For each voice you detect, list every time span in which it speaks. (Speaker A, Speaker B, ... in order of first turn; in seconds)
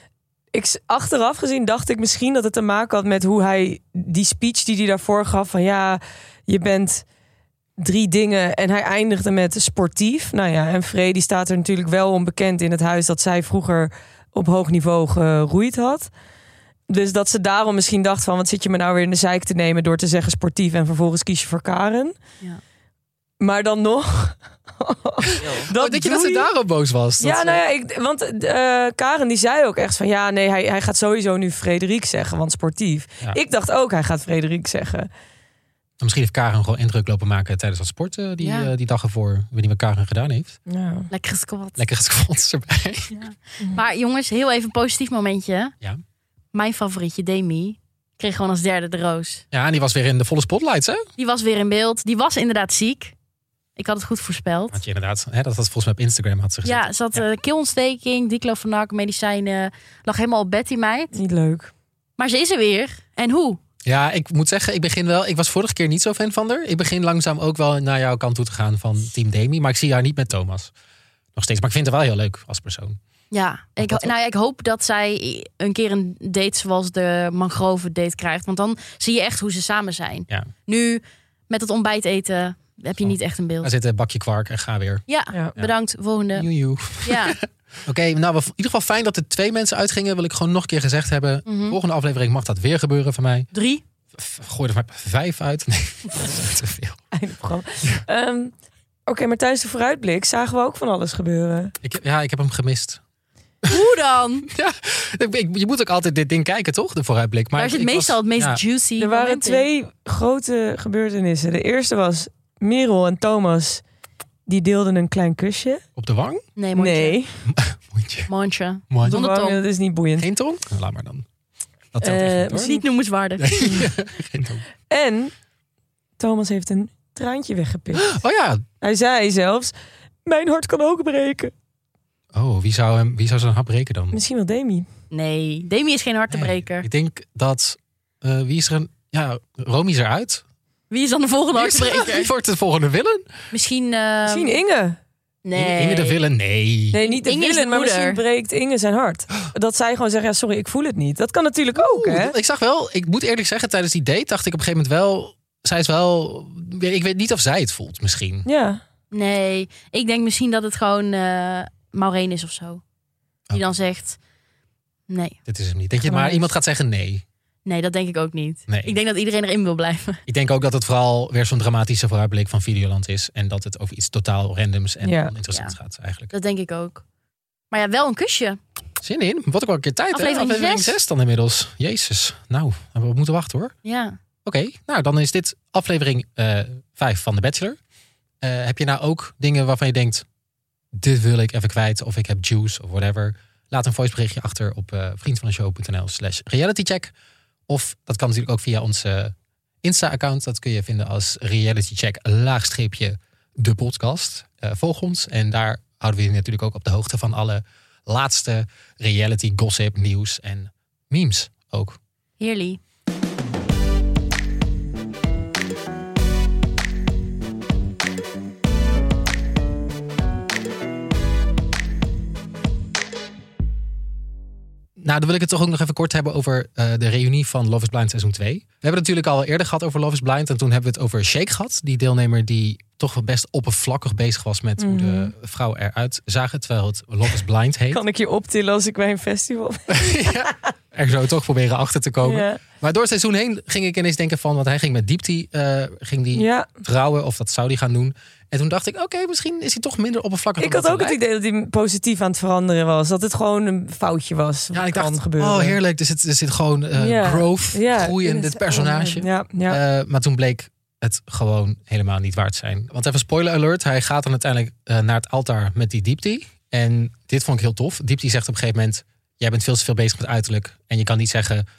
Speaker A: 0.5-7.0, 7.8-16.1, 16.9-22.2, 23.4-26.5, 27.2-35.1, 40.7-41.1, 61.1-61.7, 97.1-98.5, 99.1-101.8, 109.0-113.8, 114.5-115.8, 116.8-117.4, 119.0-120.3, 122.0-122.6, 124.9-125.3, 126.2-128.2, 128.8-129.7, 130.3-131.5, 134.1-134.9, 144.3-145.0, 146.9-152.3, 158.4-158.8, 166.0-166.5, 175.0-175.3, 234.8-235.3, 237.9-240.2, 242.2-242.6, 246.3-246.7, 250.6-255.8, 257.0-259.8
Speaker B: 25.4-27.6, 36.0-40.6, 41.8-43.2, 49.5-51.0, 54.7-57.2, 63.9-70.7, 71.3-73.0, 73.8-74.1, 83.0-85.0, 86.3-93.5, 94.2-97.0, 101.8-103.0, 104.5-108.6, 116.0-116.4, 117.5-118.3, 118.9-119.2, 120.2-121.3, 121.9-122.8, 123.4-124.7, 128.0-128.6, 132.3-134.2, 136.3-140.4, 141.5-143.3, 145.6-147.0, 151.7-158.5, 165.5-167.2, 168.7-169.0, 170.3-176.3, 179.0-183.7, 184.4-187.8, 188.4-190.2, 190.9-197.1, 197.7-212.0, 225.0-238.0, 239.9-251.2, 254.7-271.7
Speaker C: 38.4-38.7, 41.1-41.8, 43.1-45.7, 46.5-49.4, 51.2-53.1, 53.8-54.8, 56.6-61.1, 62.2-63.6, 73.3-83.7, 85.1-86.5, 87.0-87.4, 91.5-91.8, 93.5-93.8, 103.7-104.5, 107.6-109.7, 116.6-117.2, 118.3-119.6, 122.5-123.8, 135.1-136.9, 140.9-142.3, 143.5-144.6, 145.4-146.2, 147.0-148.2, 159.1-162.8, 163.5-164.2, 165.1-165.4, 167.7-170.2, 176.3-177.0, 177.7-178.6, 180.1-181.0, 183.8-184.2, 212.4-212.8